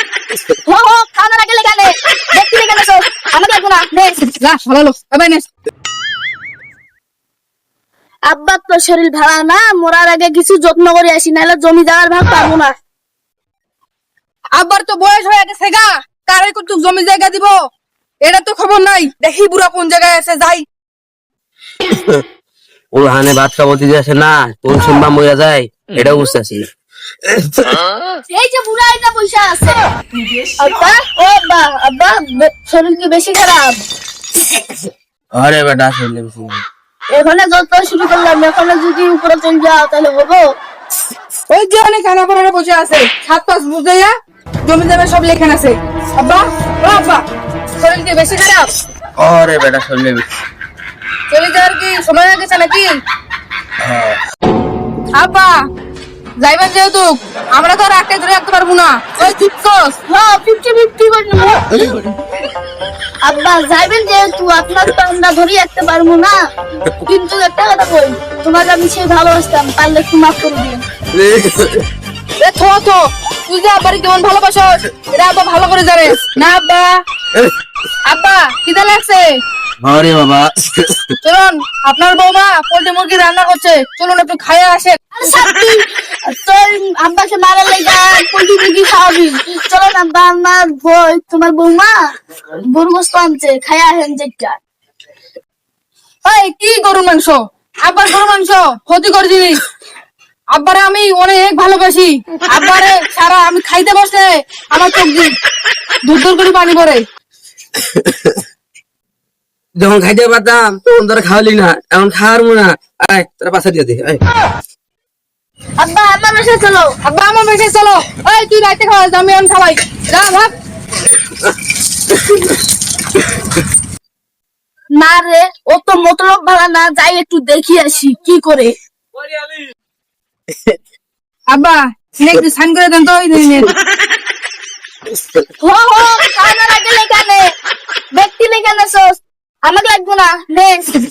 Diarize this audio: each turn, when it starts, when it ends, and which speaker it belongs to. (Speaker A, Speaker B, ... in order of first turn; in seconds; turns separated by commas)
Speaker A: 0.7-4.2, Speaker B: 4.3-5.5, Speaker A: 8.3-12.7, Speaker B: 14.5-17.5, Speaker B: 18.2-20.6, Speaker C: 21.9-22.2, Speaker C: 22.9-26.7, Speaker C: 27.3-27.8, Speaker A: 28.3-29.9, Speaker A: 30.6-33.9, Speaker C: 35.3-36.6, Speaker A: 37.1-40.5, Speaker B: 41.5-44.1, Speaker B: 44.6-47.2, Speaker B: 47.8-48.7, Speaker C: 49.2-50.2, Speaker B: 51.3-52.9, Speaker C: 53.8-54.2, Speaker B: 55.2-55.6, Speaker B: 56.4-60.0, Speaker A: 60.1-62.0, Speaker A: 63.2-66.4, Speaker A: 66.9-70.8, Speaker C: 71.1-71.9, Speaker B: 72.4-77.0, Speaker B: 78.1-79.2, Speaker C: 79.8-81.1, Speaker B: 81.2-85.0, Speaker A: 85.1-92.1, Speaker A: 92.6-94.6, Speaker B: 96.2-99.6, Speaker B: 100.5-105.3, Speaker B: 106.0-107.0, Speaker C: 107.9-108.4, Speaker C: 109.8-114.2, Speaker A: 115.8-116.9, Speaker B: 117.0-120.5, Speaker A: 125.0-128.8, Speaker B: 131.5-133.8, Speaker A: 135.6-137.5, Speaker A: 138.1-140.9